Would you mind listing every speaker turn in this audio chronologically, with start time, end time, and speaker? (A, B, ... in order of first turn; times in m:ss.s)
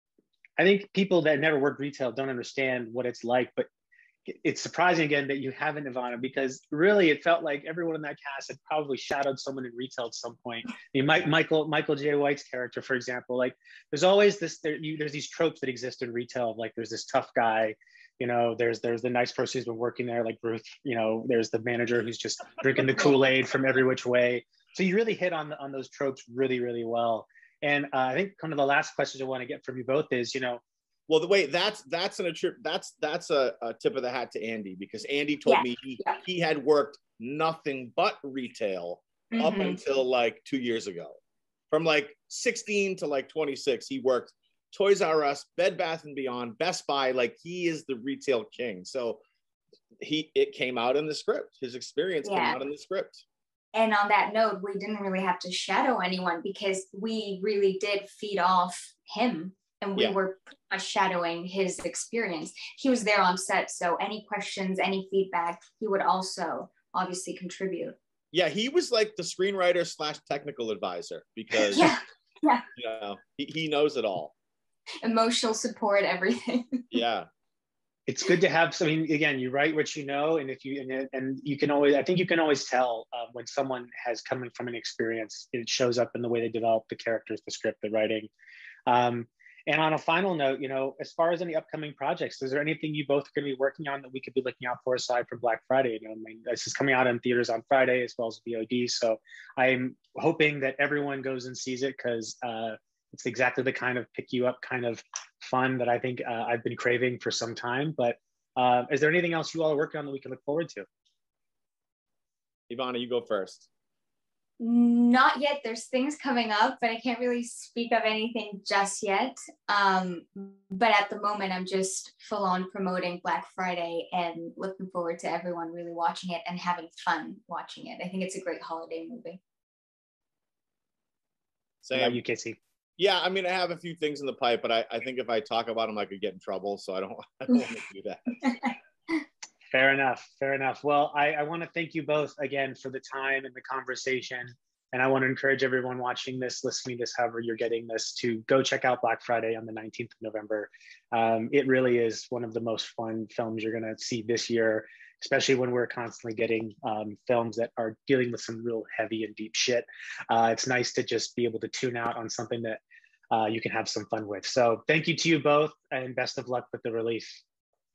0:00.6-0:03.7 A
0:04.3-0:30.6 A
0:31.1-0:41.2 B
0:35.5-0:36.2 C
0:39.3-0:39.8 C
0:41.7-0:49.2 B
0:50.0-0:53.2 B
0:52.2-0:52.6 C
0:53.7-1:08.0 C
1:08.3-1:12.0 B
1:11.6-1:12.6 C
1:12.7-1:14.3 B
1:15.0-1:17.0 C
1:16.9-1:17.3 B
1:18.1-1:28.3 A
1:28.9-1:50.8 A
1:52.7-1:53.7 B
1:54.6-2:09.4 C
2:11.8-2:12.2 B
2:11.9-2:12.6 A
2:13.0-2:18.5 B
2:18.4-2:18.7 C
2:19.7-2:42.8 A
2:43.3-2:47.4 A